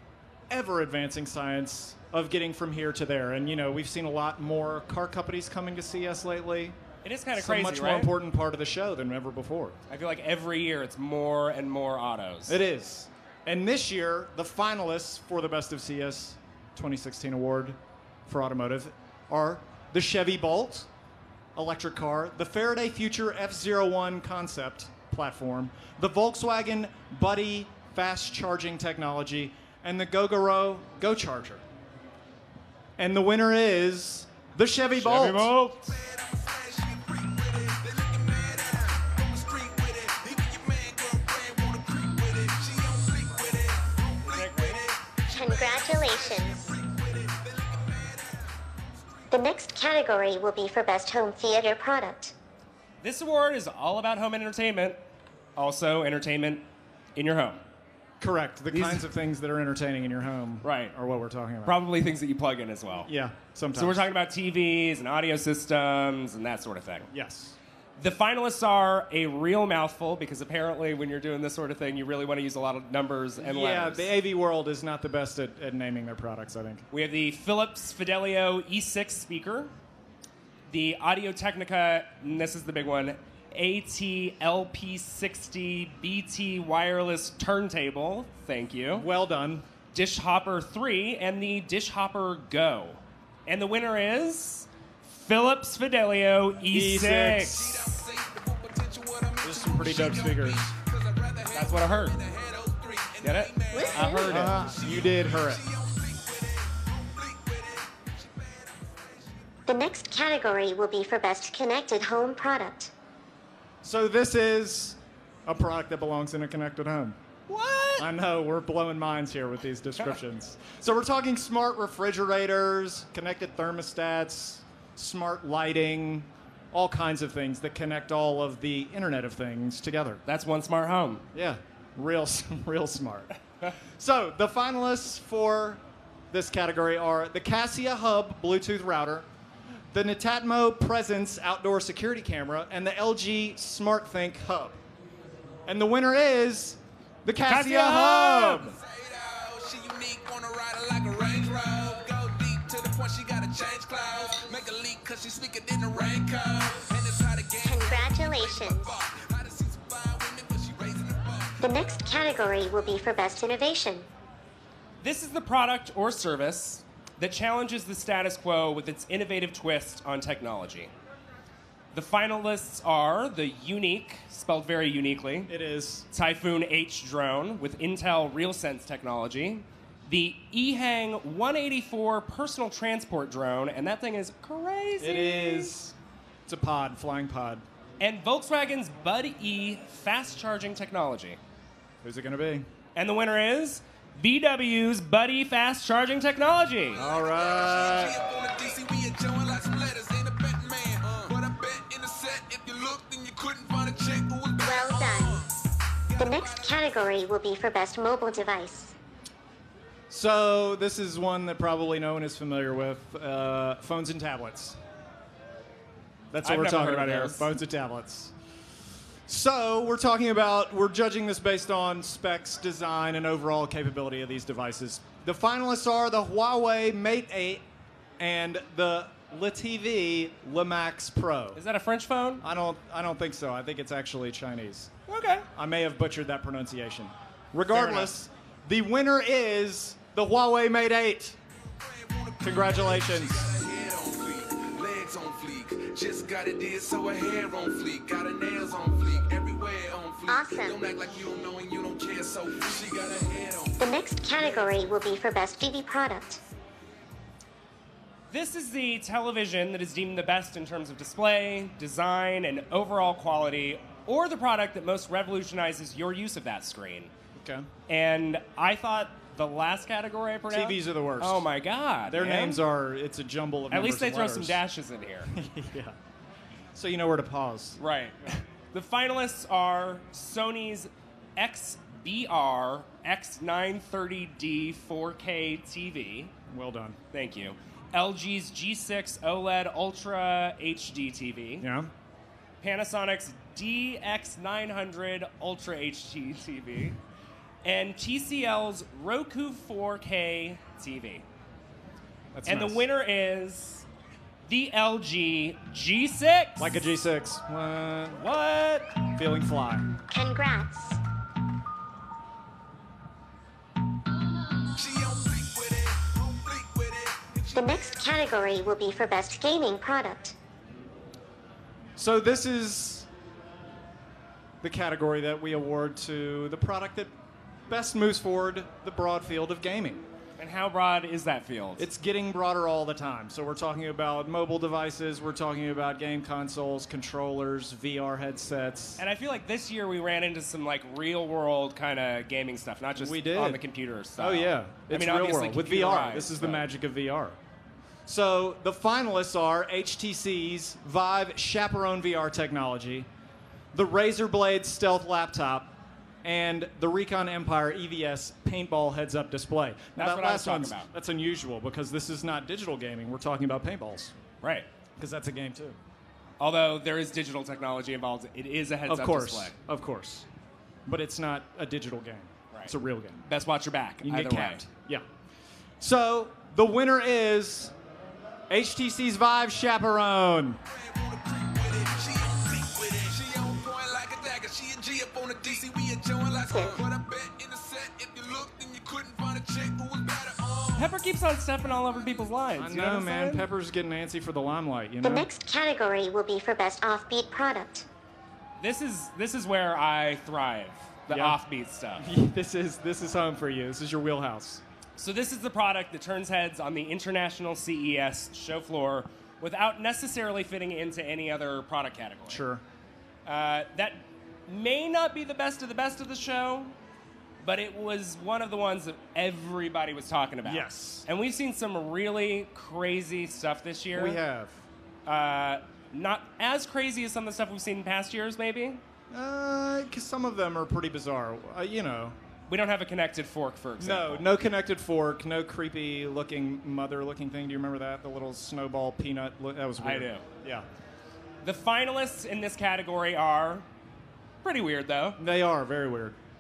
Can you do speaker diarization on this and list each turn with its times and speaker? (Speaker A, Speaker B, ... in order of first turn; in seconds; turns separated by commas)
Speaker A: 0.5-6.8, Speaker B: 7.0-8.1, Speaker A: 7.3-9.8, Speaker B: 9.9-12.6, Speaker A: 12.5-20.9, Speaker A: 21.6-31.6, Speaker A: 33.0-35.5, Speaker B: 35.0-36.0, Speaker C: 36.3-43.8, Speaker B: 44.2-44.9, Speaker D: 45.3-46.8, Speaker C: 46.8-47.9, Speaker D: 49.3-52.4, Speaker B: 53.0-55.0, Speaker B: 55.6-57.6, Speaker A: 58.2-61.8, Speaker B: 58.7-59.1, Speaker B: 60.6-60.9, Speaker B: 61.6-63.1, Speaker A: 63.1-64.1, Speaker B: 63.7-67.1, Speaker A: 67.1-67.6, Speaker B: 68.0-74.1, Speaker A: 73.4-76.8, Speaker B: 76.9-79.7, Speaker B: 80.7-89.1, Speaker A: 89.0-89.7, Speaker B: 89.9-98.0, Speaker A: 96.7-97.9, Speaker C: 97.9-101.7, Speaker A: 99.4-100.7, Speaker B: 101.5-102.2, Speaker C: 102.2-103.8, Speaker B: 103.2-104.6, Speaker D: 103.7-104.4, Speaker A: 104.0-105.7, Speaker C: 104.8-107.6, Speaker D: 109.7-112.9, Speaker A: 113.8-117.2, Speaker B: 117.5-118.1, Speaker A: 118.0-130.2, Speaker B: 130.3-131.2, Speaker A: 131.3-139.3, Speaker A: 139.9-144.8, Speaker A: 145.7-148.8, Speaker B: 147.5-148.8, Speaker C: 148.8-161.6, Speaker D: 157.6-159.0, Speaker D: 161.6-164.1, Speaker B: 165.0-170.9, Speaker B: 171.9-175.5, Speaker A: 175.5-176.1, Speaker B: 176.1-185.7, Speaker A: 185.0-185.9, Speaker A: 186.5-187.6, Speaker B: 188.0-191.4, Speaker A: 192.0-192.7, Speaker B: 192.9-197.1, Speaker A: 196.9-198.2, Speaker C: 197.5-205.3, Speaker D: 204.6-205.5, Speaker D: 206.2-208.9, Speaker A: 210.1-214.8, Speaker A: 216.3-218.3, Speaker B: 216.4-217.5, Speaker A: 219.3-227.6, Speaker A: 228.2-231.6, Speaker B: 231.6-232.4, Speaker A: 232.4-234.9, Speaker B: 235.1-235.5, Speaker A: 235.6-241.4, Speaker B: 237.7-238.1, Speaker A: 242.4-243.6, Speaker C: 243.4-253.8, Speaker D: 250.3-250.8, Speaker D: 253.8-256.4, Speaker B: 258.3-267.1, Speaker A: 267.4-267.7, Speaker B: 267.9-272.6, Speaker A: 270.5-271.5, Speaker A: 272.1-274.6, Speaker B: 273.7-275.3, Speaker A: 275.3-275.9, Speaker A: 276.8-277.8, Speaker B: 277.8-286.3, Speaker A: 286.5-287.0, Speaker B: 287.1-291.7, Speaker A: 291.6-291.9, Speaker B: 292.6-297.0, Speaker B: 297.6-301.2, Speaker A: 302.3-302.9, Speaker B: 302.5-303.9, Speaker B: 304.4-306.8, Speaker A: 306.6-308.3, Speaker B: 308.1-308.9, Speaker A: 309.1-309.9, Speaker D: 310.1-311.0, Speaker C: 314.8-317.3, Speaker D: 317.5-320.4, Speaker A: 322.0-323.1, Speaker A: 324.6-327.1, Speaker A: 327.7-330.0, Speaker B: 330.4-331.9, Speaker A: 331.8-339.0, Speaker B: 339.0-346.7, Speaker A: 343.0-343.6, Speaker A: 344.2-347.4, Speaker A: 348.1-353.1, Speaker A: 353.7-355.7, Speaker A: 356.2-364.1, Speaker B: 360.0-360.9, Speaker B: 364.4-364.7, Speaker A: 365.0-365.8, Speaker B: 366.4-369.5, Speaker A: 368.9-370.3, Speaker A: 370.9-373.2, Speaker B: 372.5-374.6, Speaker A: 374.0-375.1, Speaker A: 375.8-377.7, Speaker A: 378.5-380.6, Speaker C: 381.3-390.8, Speaker D: 386.5-386.9, Speaker B: 390.8-393.5, Speaker A: 392.6-395.3, Speaker D: 395.0-397.9, Speaker B: 398.6-402.1, Speaker A: 401.1-401.4, Speaker A: 402.0-404.6, Speaker B: 405.0-412.4, Speaker A: 412.3-412.6, Speaker B: 413.2-416.7, Speaker B: 417.4-424.2, Speaker A: 420.4-421.1, Speaker A: 423.9-424.6, Speaker B: 425.1-428.8, Speaker A: 429.1-432.2, Speaker B: 432.5-434.3, Speaker A: 433.8-440.7, Speaker B: 439.8-440.3, Speaker B: 441.4-443.7, Speaker B: 444.4-445.2, Speaker A: 445.2-446.2